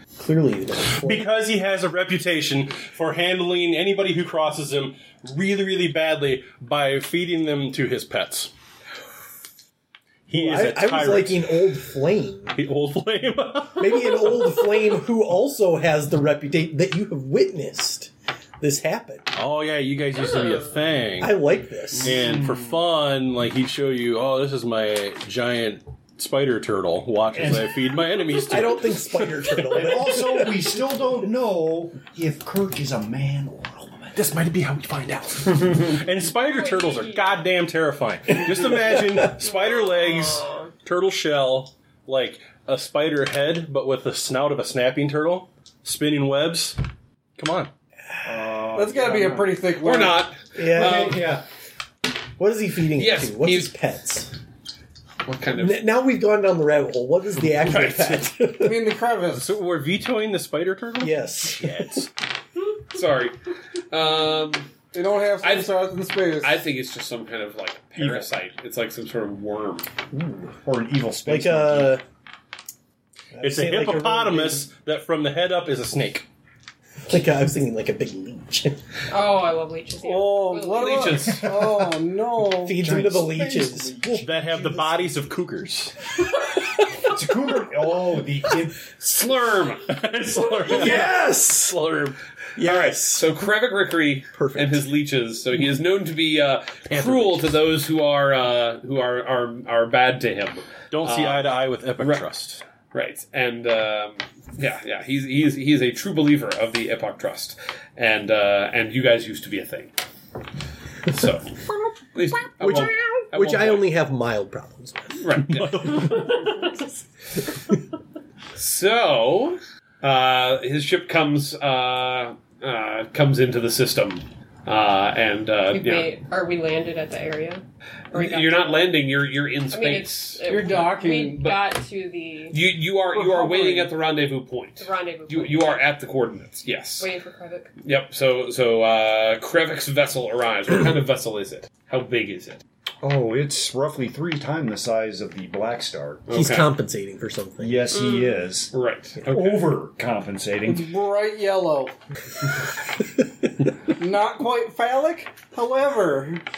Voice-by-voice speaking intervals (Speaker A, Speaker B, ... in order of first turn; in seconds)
Speaker A: 0.2-1.3, 10.3-12.6, 13.8-19.3, 21.2-22.2, 28.3-30.6, 39.0-39.3, 50.5-51.2, 52.4-54.3, 55.5-58.9, 61.0-62.0, 71.2-72.0, 73.3-74.7, 77.1-78.8, 82.6-84.1, 90.6-91.8, 92.5-93.4, 94.3-94.9, 112.6-115.3, 146.3-147.9
Speaker B: 0.8-8.5, 10.3-11.6, 12.5-14.6, 19.3-21.4, 22.0-29.6, 34.1-46.8, 47.4-47.7, 59.3-62.1, 73.4-76.3, 84.1-85.9, 89.9-92.2, 96.9-97.6, 100.9-102.6, 115.5-116.3
Speaker C: 27.3-27.9, 29.7-34.2, 48.2-49.6, 50.7-51.4, 68.0-68.3, 70.1-72.0, 81.4-81.7, 82.7-85.1, 87.0-88.9, 143.0-146.3, 147.6-148.7, 149.3-150.9
Speaker D: 36.3-37.5, 39.4-40.7, 79.1-81.3, 115.9-117.0, 125.7-129.0, 129.7-132.6, 134.8-135.9, 137.0-137.7
Speaker E: 48.7-50.3, 58.6-59.5, 64.9-66.6, 80.0-82.8, 130.5-131.5, 133.1-133.9, 150.7-151.9, 154.0-156.4
Speaker F: 49.8-51.2, 53.0-53.7, 55.2-55.9, 57.6-58.3, 62.9-63.4, 63.9-64.7, 65.4-65.8, 66.4-69.9, 80.7-81.5, 89.0-89.9, 92.6-102.2, 102.9-109.9, 111.1-111.6, 112.1-113.9, 115.2-116.4, 118.5-126.1, 128.1-130.8, 132.5-137.1, 137.8-142.6, 146.3-146.7, 148.7-149.7